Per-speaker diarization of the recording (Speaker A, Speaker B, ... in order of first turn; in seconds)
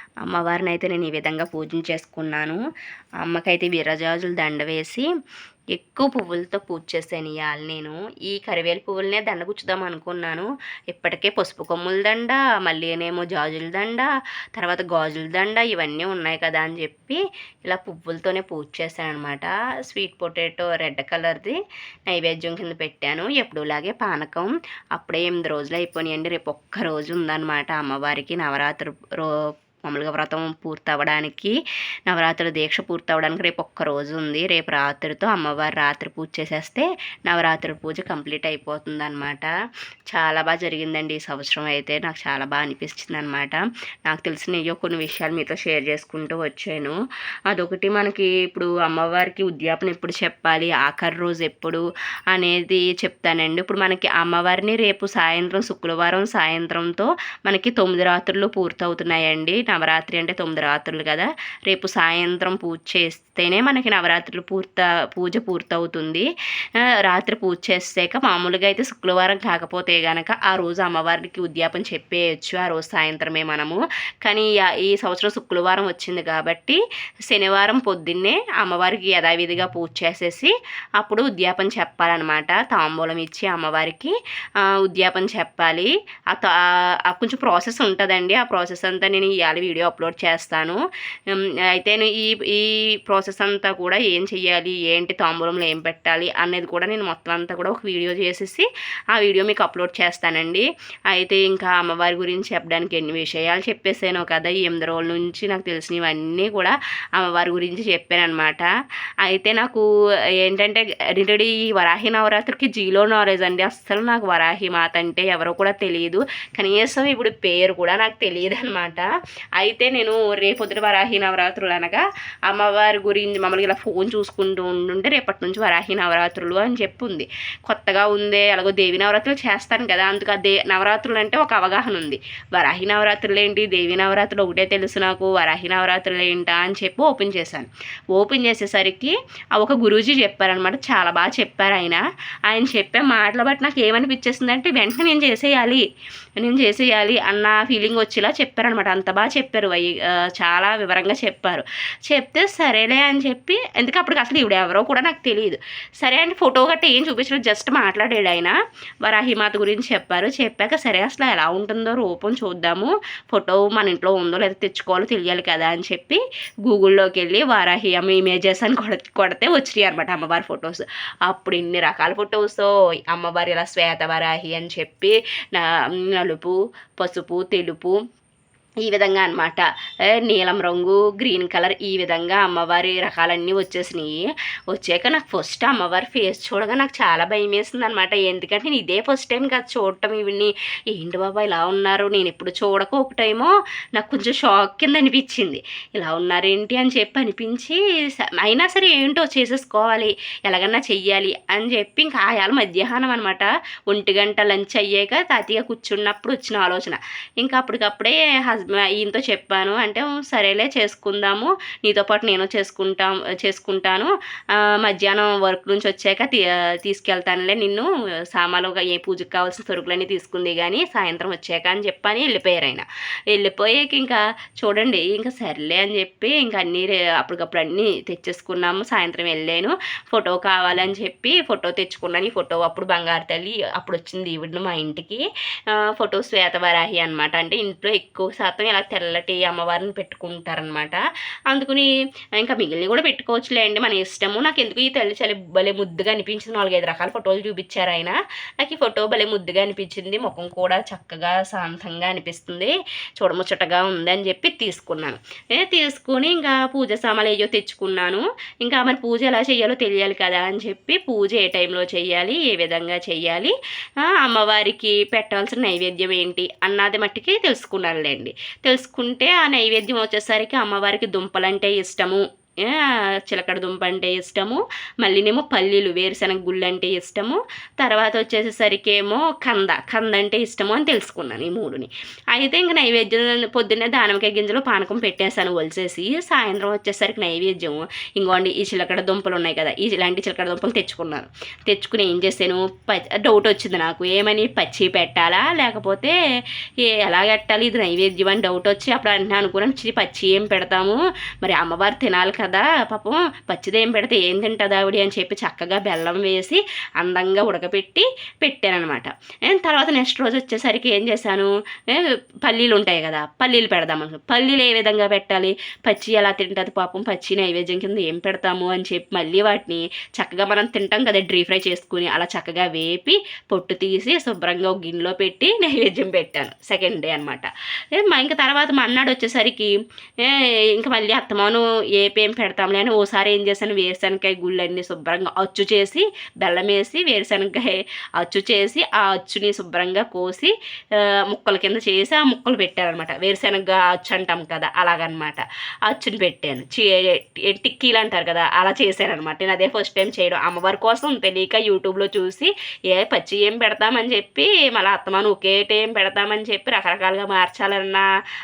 Speaker A: 0.3-2.6, 3.2-5.0, 5.7-21.6, 22.1-29.3, 29.9-31.5, 32.1-39.5, 40.1-47.0, 47.5-66.3, 67.0-84.1, 84.8-86.6, 87.1-90.8, 91.3-108.7, 109.2-109.8, 110.4-119.0, 119.6-145.8, 146.4-158.5, 159.0-177.9, 178.8-179.6, 180.2-197.8, 198.4-235.2, 235.8-263.5, 264.2-296.1, 296.9-340.5, 341.3-358.0